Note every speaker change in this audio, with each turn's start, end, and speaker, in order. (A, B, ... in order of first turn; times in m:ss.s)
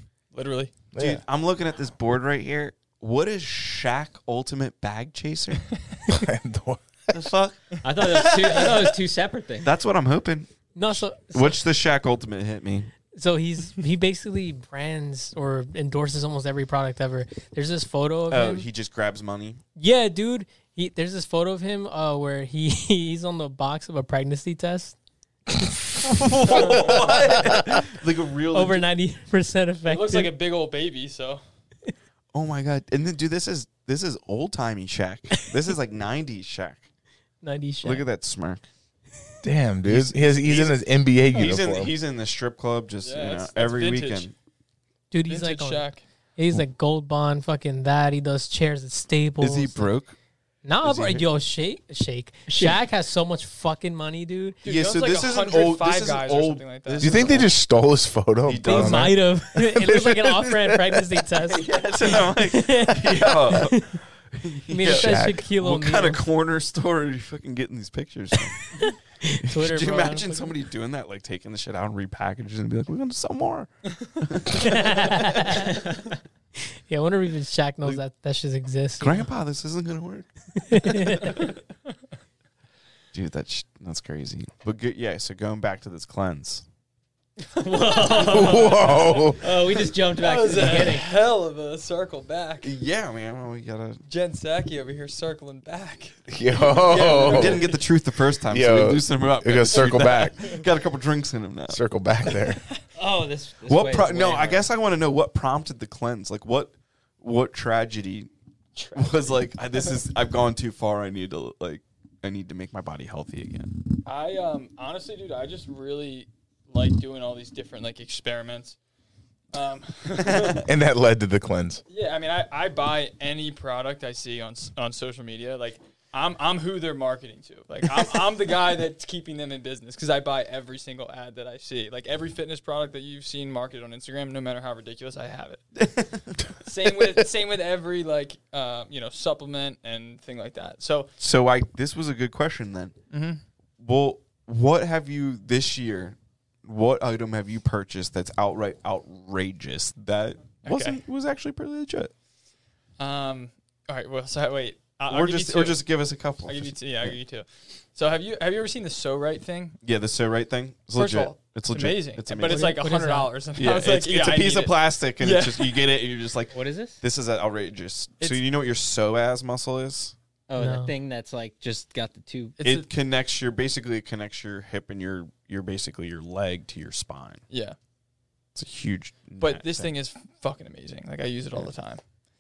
0:00.3-0:00.7 A
0:00.9-0:01.2 B
0:01.0-0:05.7 C
0:06.1-0:07.3 B
0:07.1-0:08.9 C
0:07.8-0:09.7 D
0:09.6-0:12.9 C
0:10.8-0:11.6 E
0:13.1-0:18.7 E
0:18.3-0:19.6 C
0:19.8-0:25.0 E
0:26.0-0:28.9 C
0:26.5-0:26.8 E
0:27.4-0:27.8 E
0:28.5-0:30.3 E
0:29.8-0:31.4 A
0:32.3-0:36.9 C
0:37.4-0:38.0 E
0:37.8-0:38.6 C
0:39.4-0:41.9 B
0:39.8-0:44.3 C
0:43.0-0:44.3 A
0:45.1-0:49.9 E
0:45.3-0:46.0 A
0:49.4-0:50.2 C
0:50.6-0:54.6 E
0:50.8-0:51.3 C
0:52.5-0:52.8 D
0:54.6-0:57.2 A
0:54.6-0:57.5 C
0:57.0-1:00.6 B
0:58.5-0:59.2 C
0:58.6-1:04.0 E
1:01.3-1:08.7 C
1:04.7-1:06.2 E
1:04.8-1:05.4 B
1:08.8-1:10.6 E
1:09.4-1:15.0 C
1:14.5-1:16.0 E
1:16.9-1:19.3 E
1:19.0-1:21.5 C
1:20.6-1:21.4 E
1:23.1-1:26.6 C
1:27.5-1:31.1 D
1:28.1-1:29.4 B
1:30.1-1:32.8 A
1:32.6-1:34.0 C
1:34.1-1:37.8 A
1:36.3-1:37.7 B
1:36.9-1:41.8 C
1:38.5-1:40.4 B
1:39.8-1:40.5 A
1:41.7-1:42.6 B
1:43.0-1:44.7 D
1:43.7-1:48.3 C
1:48.8-1:49.9 A
1:49.0-1:53.8 C
1:54.0-1:58.8 A
1:59.5-2:00.7 A
2:00.2-2:00.6 C
2:00.6-2:01.8 B
2:01.9-2:15.6 A
2:15.8-2:16.6 C
2:16.6-2:21.1 A
2:21.2-2:23.0 C
2:23.1-2:23.4 A
2:23.8-2:32.1 C
2:30.6-2:31.0 A
2:33.0-2:35.8 A
2:35.1-2:37.2 C
2:36.4-2:39.8 A
2:39.8-2:42.8 C
2:40.9-2:45.9 A
2:42.4-2:43.4 E
2:43.6-2:50.2 C
2:46.5-2:47.0 D
2:50.5-2:52.6 D
2:50.6-2:50.9 E
2:52.6-2:52.9 A
2:52.6-2:57.4 C
2:57.5-2:57.8 A
2:58.6-2:59.9 C
2:59.4-3:02.0 A